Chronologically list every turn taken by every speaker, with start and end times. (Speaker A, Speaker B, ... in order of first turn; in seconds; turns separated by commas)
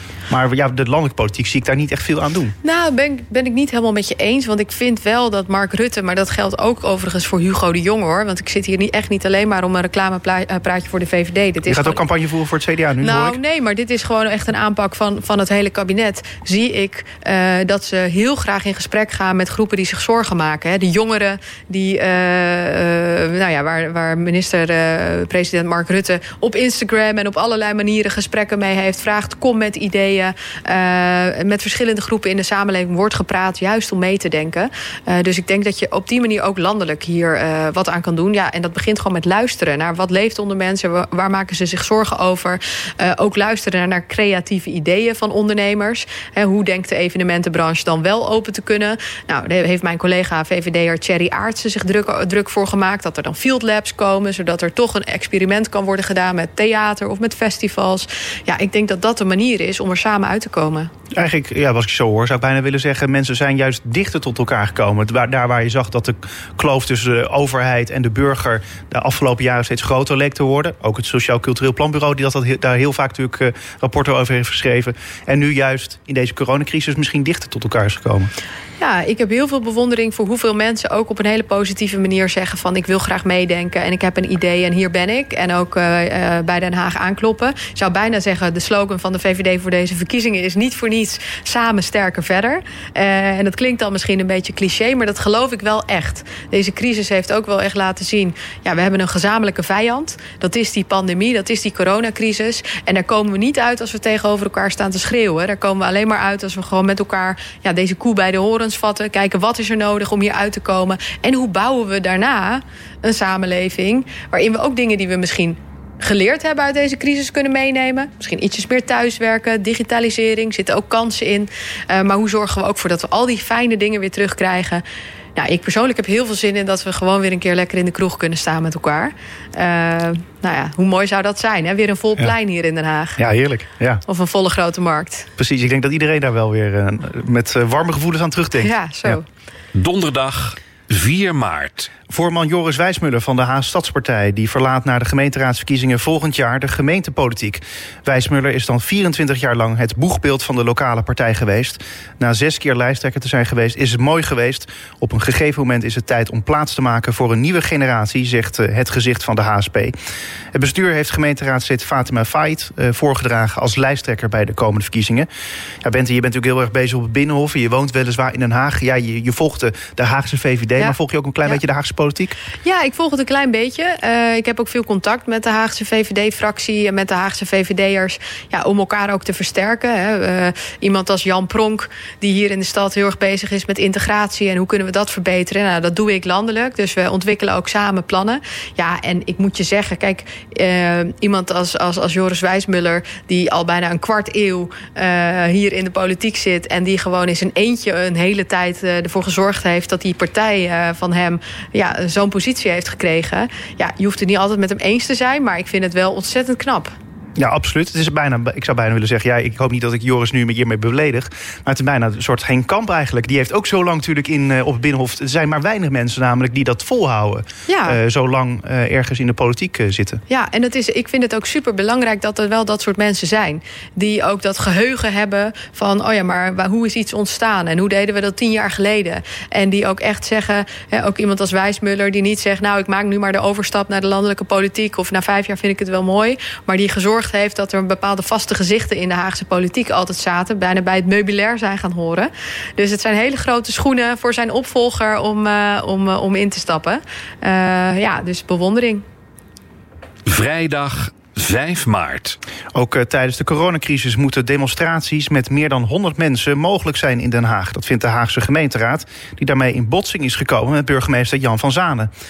Speaker A: 0.3-2.5, Speaker B: 2.6-12.0, Speaker A: 11.7-13.4, Speaker B: 13.0-60.9, Speaker A: 61.1-78.3, Speaker B: 78.8-124.8, Speaker B: 125.3-133.2, Speaker A: 133.2-134.0, Speaker B: 134.1-135.3, Speaker A: 135.4-139.2, Speaker B: 138.6-139.2, Speaker C: 139.7-141.9, Speaker A: 142.1-159.9, Speaker A: 160.5-165.3, Speaker A: 165.8-172.3, Speaker B: 170.8-171.6, Speaker B: 172.6-206.9, Speaker A: 207.4-220.2, Speaker B: 217.7-218.0, Speaker B: 220.3-249.0, Speaker C: 250.2-252.4, Speaker A: 252.7-262.1